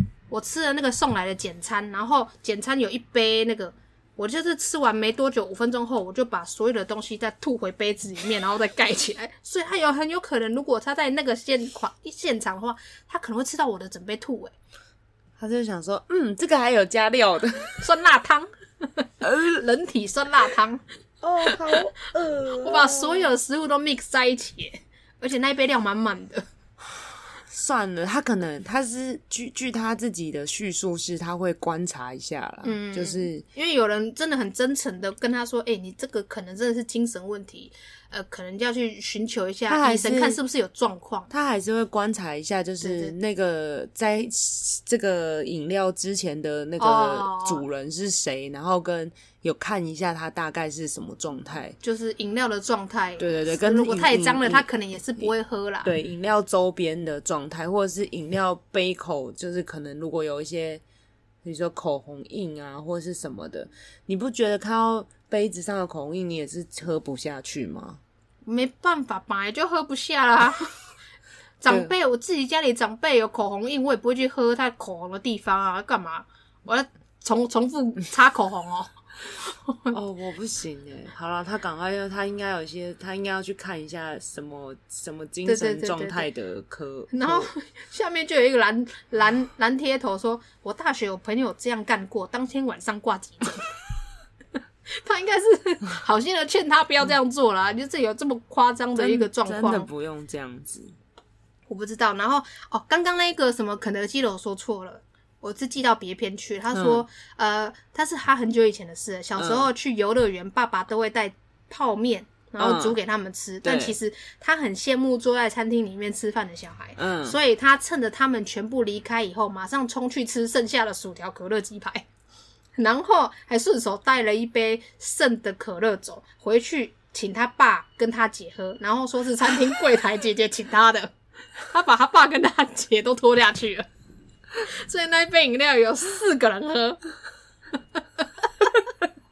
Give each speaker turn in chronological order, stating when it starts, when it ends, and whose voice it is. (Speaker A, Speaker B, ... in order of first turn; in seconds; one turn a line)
Speaker A: 0.3-14.5
Speaker B: 15.4-17.8
Speaker A: 17.8-20.8
Speaker B: 19.2-19.6
Speaker B: 21.2-23.3
Speaker A: 21.5-21.7
Speaker A: 22.6-26.5
Speaker B: 27.0-33.5
Speaker A: 32.6-41.3
Speaker B: 39.7-40.4
Speaker B: 41.3-51.8
Speaker A: 42.8-43.1
Speaker A: 46.8-47.6
Speaker A: 51.8-55.9
Speaker B: 53.2-54.7
Speaker B: 55.8-60.8
Speaker B: 61.4-68.0
Speaker A: 68.5-70.7
Speaker A: 71.6-79.9
Speaker B: 71.7-71.9
Speaker B: 79.9-87.5
Speaker A: 85.5-86.3
Speaker A: 87.1-93.7
Speaker A: 94.9-99.9
Speaker B: 99.0-101.0
Speaker A: 101.7-122.1
Speaker B: 106.7-107.0
Speaker B: 109.4-109.7
Speaker B: 112.6-113.0
Speaker B: 113.6-114.0
Speaker B: 117.0-117.4
Speaker A: 122.8-131.1
Speaker A: 131.7-133.9
Speaker A: 134.6-137.0
Speaker A: 138.0-138.7